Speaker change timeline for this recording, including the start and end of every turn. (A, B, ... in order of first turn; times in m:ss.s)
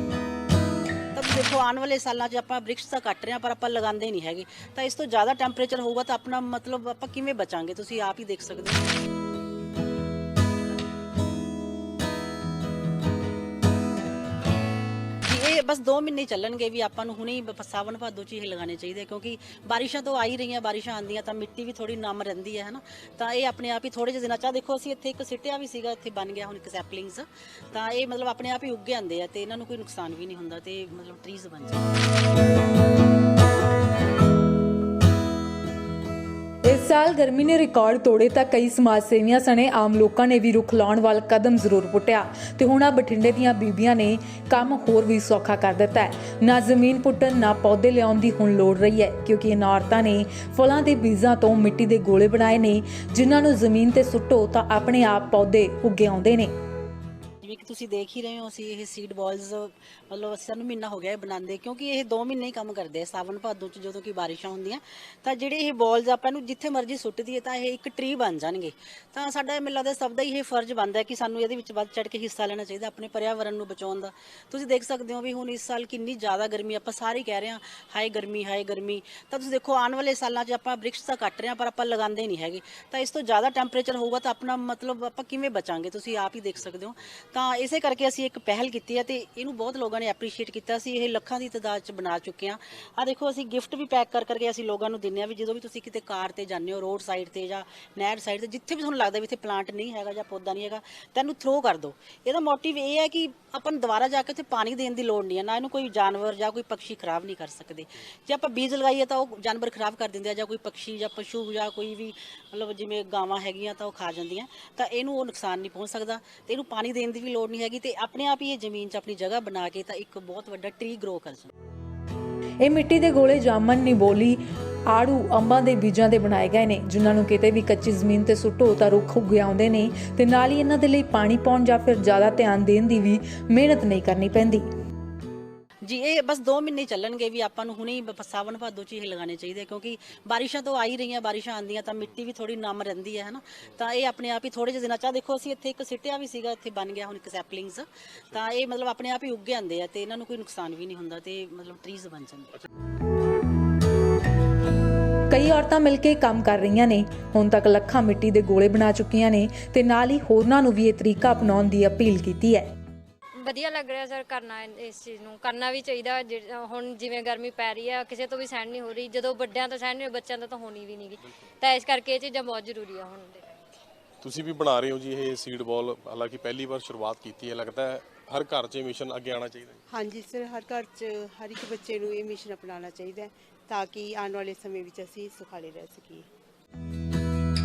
0:01.1-0:08.9 A
0:15.2-0:31.9 A
0:36.7-0:56.5 B
0:57.4-2:01.5 A
2:02.6-2:04.4 B
2:04.9-2:14.7 B
2:15.8-2:32.6 A
2:35.3-2:42.7 B
2:43.4-2:53.6 C
2:54.2-2:59.8 D
2:59.9-3:06.3 E